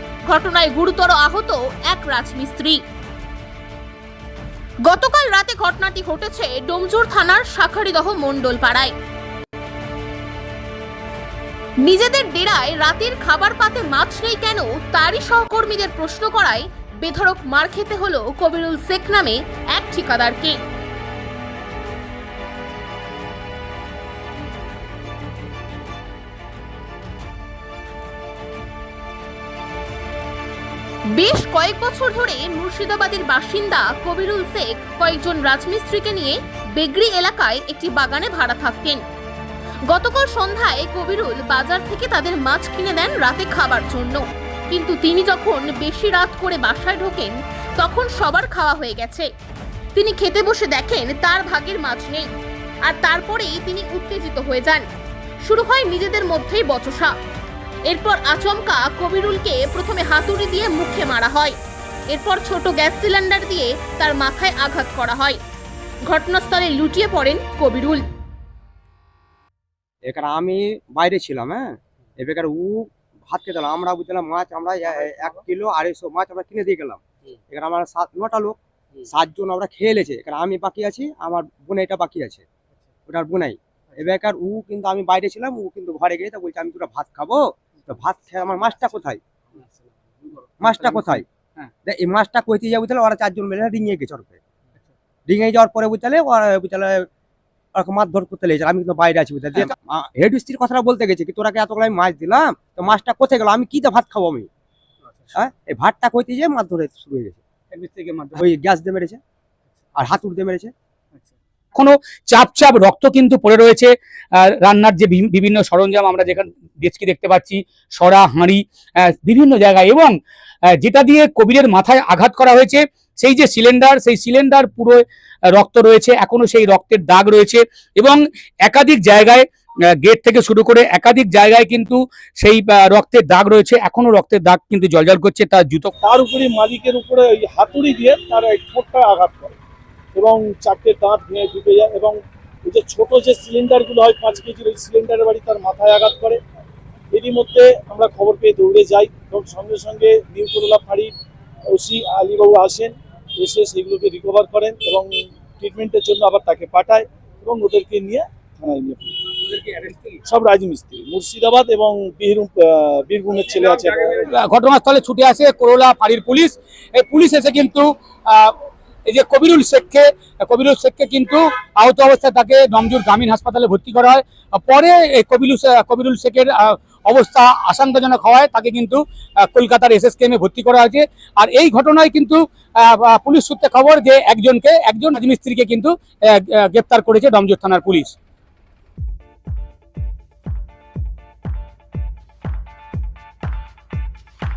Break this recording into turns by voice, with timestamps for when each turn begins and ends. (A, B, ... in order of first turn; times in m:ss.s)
0:00.3-0:02.8 A
0:04.9-0:08.9 A
0:11.8-0:20.6 A
0:31.1-0:39.0 A
0:39.9-0:49.3 A
0:49.9-0:52.3 A
0:52.8-0:54.8 A
0:55.4-0:57.1 A
0:57.9-1:01.6 A
1:02.1-1:05.4 A
1:06.1-1:08.0 A
1:10.0-1:22.4 B
1:23.1-1:29.2 B
1:30.3-1:31.7 C
1:30.6-1:31.2 B
1:31.8-1:34.4 B
1:35.3-1:37.1 B
1:37.7-1:44.5 B
1:45.3-1:47.4 B
1:47.7-1:48.4 C
1:48.4-1:49.2 B
1:50.0-1:50.7 B
1:51.7-2:00.1 C
2:00.8-2:09.4 C
2:10.0-2:15.9 C
2:16.0-2:19.6 D
2:20.1-2:26.4 D
2:27.1-2:31.1 D
2:31.7-2:39.3 D
2:39.5-2:40.2 C
2:40.2-2:44.2 D
2:43.6-3:08.1 C